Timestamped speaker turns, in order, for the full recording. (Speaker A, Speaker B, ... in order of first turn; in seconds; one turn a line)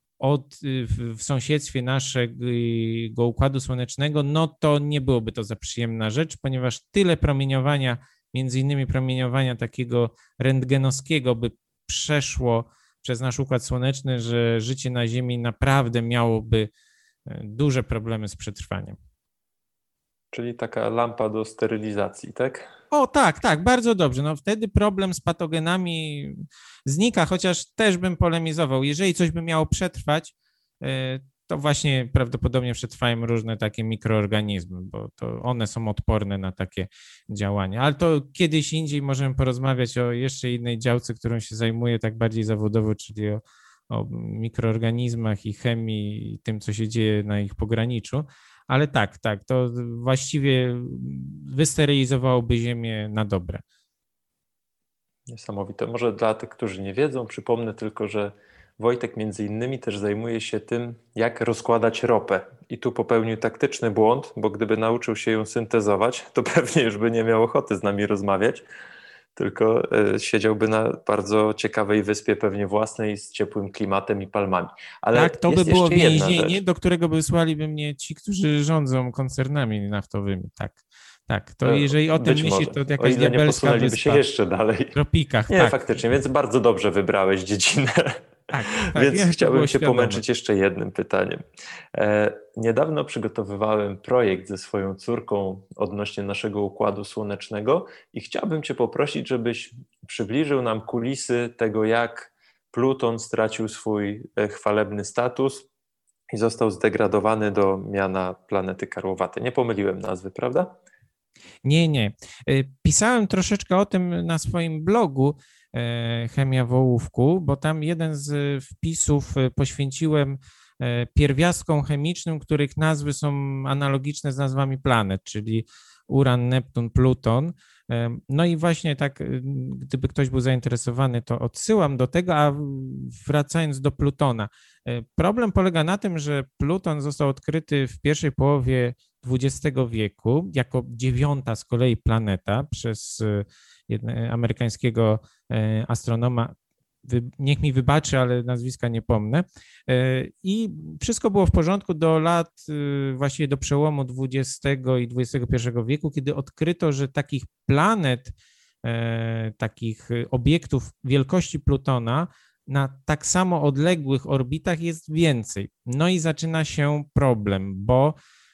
Speaker A: 0.2-16.7
Speaker A: 17.3-19.0
Speaker B: 20.3-22.7
Speaker A: 22.9-53.6
Speaker B: 55.3-68.6
Speaker B: 69.4-76.6
Speaker A: 75.1-84.2
Speaker B: 81.6-85.0
Speaker A: 84.9-85.8
Speaker B: 85.5-88.2
Speaker A: 88.5-90.2
Speaker B: 88.7-91.4
Speaker B: 91.9-105.7
Speaker B: 106.3-110.8
Speaker A: 111.6-146.5
Speaker A: 147.0-168.2